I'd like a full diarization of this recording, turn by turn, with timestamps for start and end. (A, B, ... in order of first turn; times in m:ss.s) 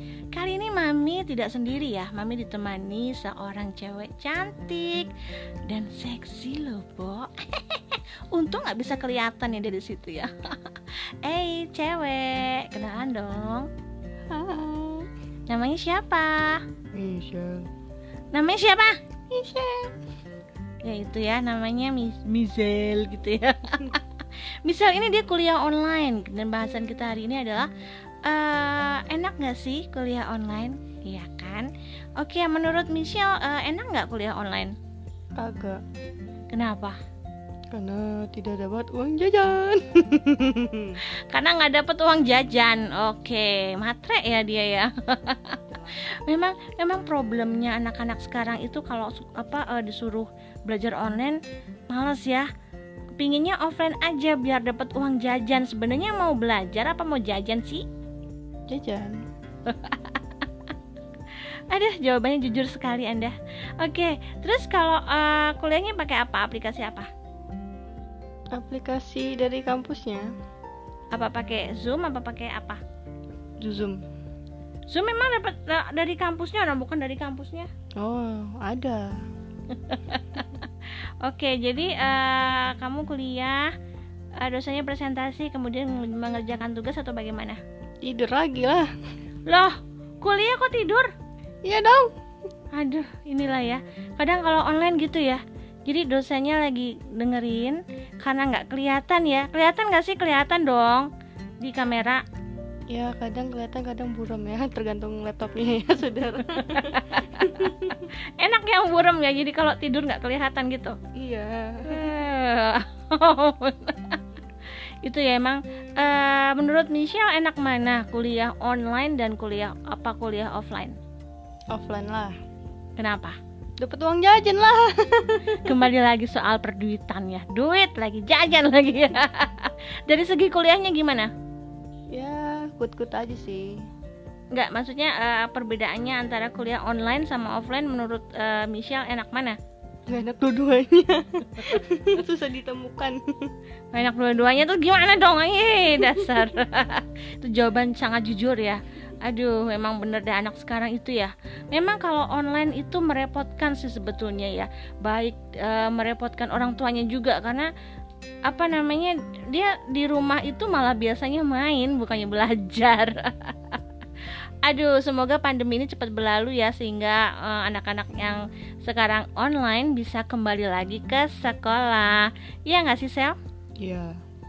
0:00.3-0:05.1 A
0:05.7-0:13.7 A
0:14.3-0:15.1 B
0:15.5-0:16.6 A
0:16.9-0:17.7 B
0:18.3-0:19.0 A
0:19.3-0:19.9 B
0:20.8-0:27.7 A
0:28.2-0:34.7 A
0:35.4-0:35.8 B
0:36.5-0:37.0 A
0:37.7-0:41.0 B
0:41.0-0:52.5 A
0:53.2-0:57.8 A
0:58.7-0:59.2 B
0:59.7-1:00.5 A
1:01.7-1:07.1 A
1:08.5-1:10.3 B
1:11.1-1:12.8 A
1:13.6-1:14.0 B
1:14.9-1:17.7 A
1:18.0-1:19.2 B
1:19.7-1:23.7 A
1:24.4-1:27.6 A
1:28.0-1:28.9 B
1:29.5-1:31.1 A
1:31.6-1:32.1 B
1:32.7-1:41.1 A
1:41.6-1:42.2 A
1:42.9-1:48.0 B
1:46.5-1:51.0 A
1:51.2-1:52.1 B
1:51.9-1:54.2 A
1:55.0-2:01.0 A
2:01.7-2:02.4 B
2:03.0-2:03.4 A
2:03.8-2:05.8 B
2:05.5-2:11.3 A
2:12.1-2:13.8 B
2:14.5-2:19.6 A
2:20.1-2:23.2 B
2:23.9-2:37.7 A
2:38.5-2:53.4 A
2:53.8-2:54.2 B